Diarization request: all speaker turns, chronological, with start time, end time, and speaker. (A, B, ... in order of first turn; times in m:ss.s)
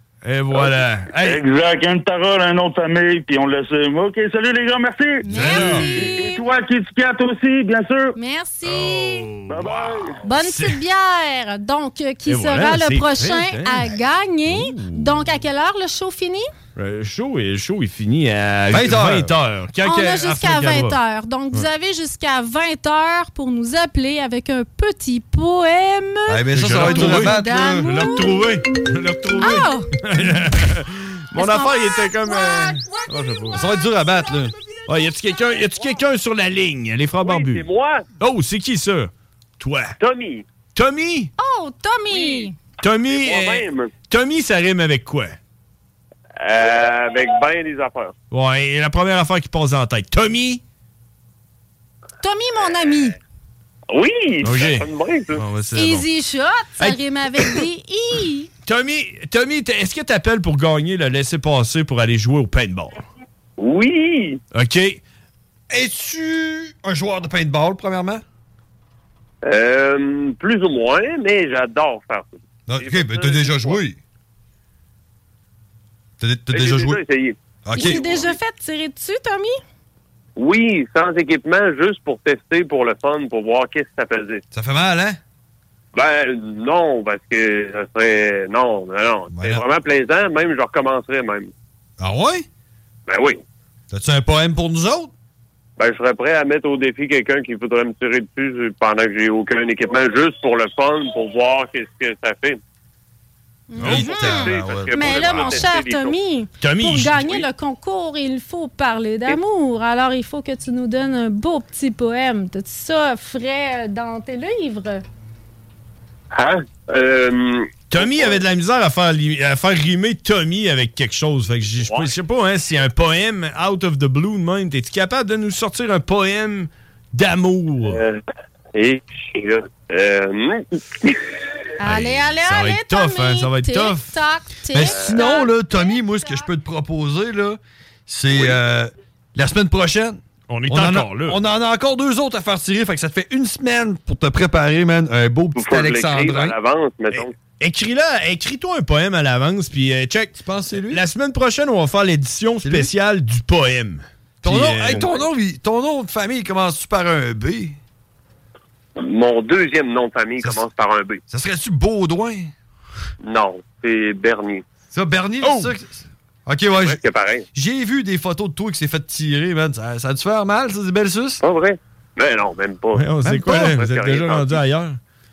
0:00.2-0:01.4 A
0:00.5-0:08.2 B
0:05.2-0:06.4 C
0:05.3-0:06.1 A
0:05.3-0:05.9 D
0:08.2-0:09.3 C
0:08.6-0:10.8 A
0:09.5-0:10.2 B
0:10.2-0:16.5 C
0:12.3-0:15.3 A
0:16.8-0:21.0 A
0:18.7-0:19.3 D
0:19.8-0:28.4 C
0:26.3-0:27.9 D
0:26.5-0:33.6 A
0:29.4-0:29.9 C
0:31.4-0:32.6 C
0:33.5-0:34.6 D
0:34.9-0:37.6 A
0:37.2-0:38.0 E
0:38.2-0:40.0 A
0:40.0-0:40.4 E
0:40.7-0:41.3 A
0:41.4-0:42.6 C
0:42.1-0:42.4 E
0:42.8-0:45.4 A
0:43.1-0:43.9 E
0:46.4-0:48.1 E
0:48.3-0:50.6 A
0:52.2-0:53.2 C
0:53.9-0:55.4 E
0:54.4-0:56.1 A
0:55.7-0:58.5 C
0:56.8-0:57.6 A
0:58.6-1:03.0 A
1:03.6-1:04.4 E
1:04.5-1:05.0 A
1:05.7-1:08.2 D
1:09.4-1:13.8 E
1:12.7-1:14.0 D
1:16.2-1:17.0 D
1:16.5-1:18.3 E
1:17.6-1:18.0 D
1:17.7-1:19.6 C
1:20.4-1:24.4 E
1:24.5-1:25.2 D
1:25.9-1:31.5 E
1:29.3-1:29.6 D
1:32.0-1:32.4 D
1:33.1-1:33.4 E
1:33.9-1:35.1 D
1:35.8-1:42.6 E
1:43.7-1:55.0 C
1:43.8-1:44.5 A
1:43.8-1:45.7 D
1:43.9-1:46.2 E
1:46.6-1:47.4 A
1:56.3-1:58.4 E
1:57.9-2:08.0 A
2:01.8-2:02.1 E
2:07.9-2:08.2 E
2:08.7-2:11.2 E
2:11.8-2:16.4 C
2:11.8-2:14.1 A
2:14.7-2:26.6 D
2:14.9-2:15.3 E
2:20.5-2:21.4 A
2:25.6-2:27.4 E
2:27.1-2:35.2 A
2:30.4-2:31.0 D
2:32.6-2:32.9 D
2:34.4-2:37.8 D
2:39.0-2:41.2 E
2:41.3-2:42.5 D
2:43.2-2:44.6 E
2:44.9-2:47.0 D
2:45.4-2:45.7 A
2:46.8-2:47.4 E
2:47.5-2:51.4 D
2:51.4-2:54.6 E
2:52.9-2:55.0 A
2:53.2-2:53.8 D